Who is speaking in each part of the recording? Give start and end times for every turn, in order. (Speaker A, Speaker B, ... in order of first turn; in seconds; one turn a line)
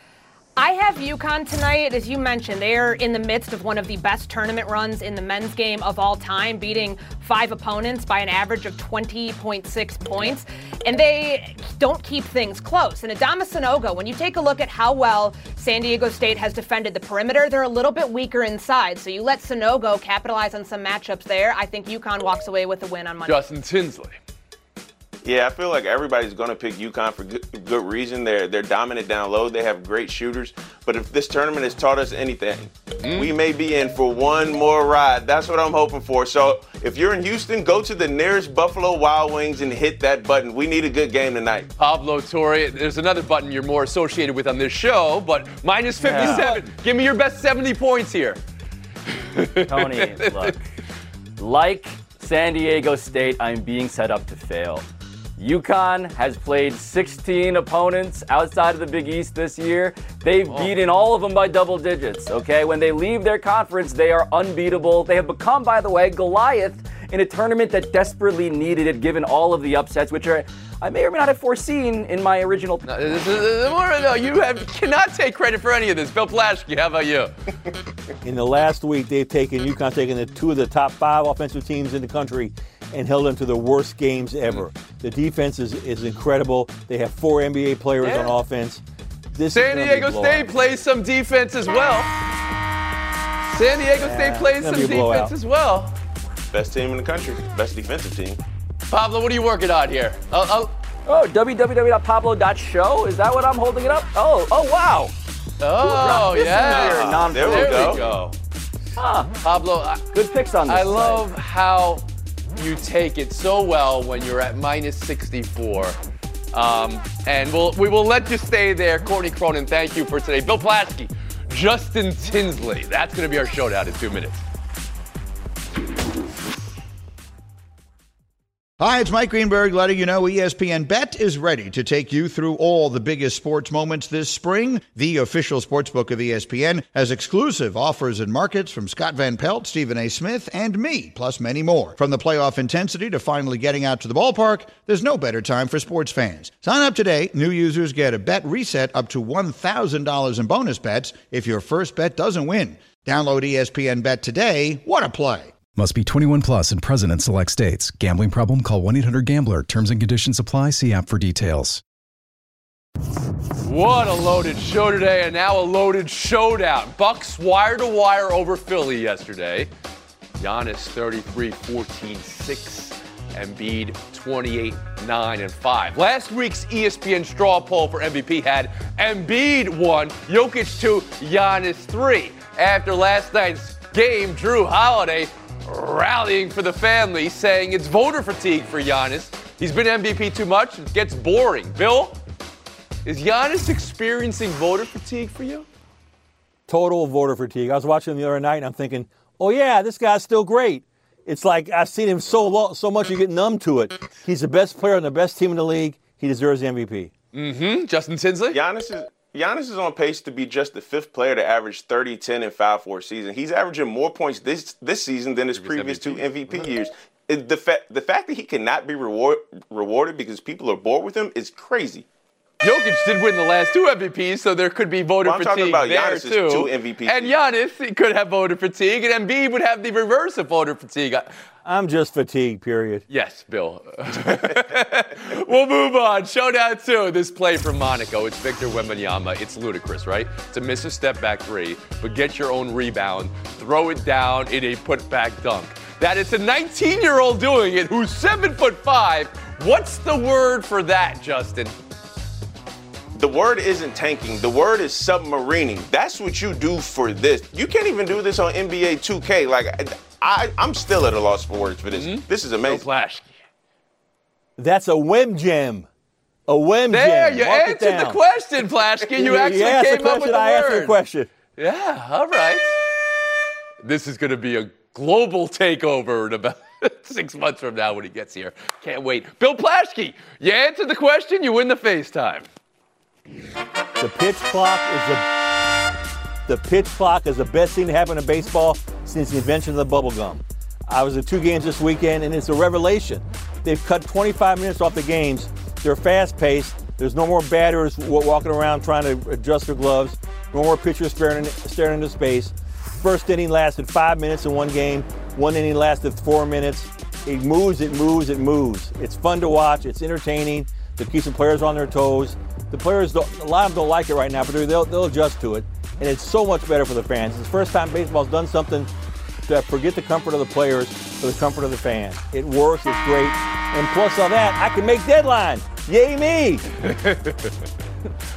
Speaker A: 0.6-23.4
Speaker B: 23.3-24.2
Speaker C: 25.2-41.7
Speaker B: 33.0-33.3
Speaker B: 41.8-48.4
Speaker D: 46.0-46.7
Speaker B: 49.3-50.6
Speaker D: 49.7-50.6
Speaker D: 51.4-54.9
Speaker D: 55.4-72.9
Speaker B: 60.5-60.7
Speaker B: 72.9-77.3
Speaker E: 78.2-88.8
Speaker B: 88.0-88.4
Speaker E: 89.3-90.5
Speaker B: 89.5-92.1
Speaker B: 93.5-95.9
Speaker E: 94.0-95.3
Speaker C: 96.5-98.4
Speaker B: 98.9-100.7
Speaker D: 101.1-105.1
Speaker B: 105.6-108.3
Speaker D: 105.8-108.2
Speaker C: 106.1-108.1
Speaker D: 109.0-109.3
Speaker B: 109.4-110.1
Speaker D: 110.1-111.3
Speaker B: 110.7-112.0
Speaker B: 112.6-116.0
Speaker B: 116.5-124.4
Speaker F: 128.8-155.5
Speaker G: 155.8-161.8
Speaker B: 163.6-169.7
Speaker B: 170.4-192.2
Speaker B: 193.1-195.7
Speaker E: 196.7-207.1
Speaker B: 207.3-208.6
Speaker C: 208.5-222.1
Speaker B: 215.6-216.7
Speaker B: 222.6-231.3
Speaker C: 225.2-227.4
Speaker E: 231.7-233.0
Speaker B: 233.1-251.7
Speaker C: 253.2-262.8
Speaker B: 261.9-263.3
Speaker E: 264.6-265.9
Speaker E: 266.5-268.2
Speaker B: 266.9-271.0
Speaker E: 269.1-271.3
Speaker B: 271.6-272.8
Speaker B: 273.8-282.5
Speaker E: 284.0-285.2
Speaker E: 286.5-318.9
Speaker E: 319.5-326.6
Speaker B: 326.8-327.6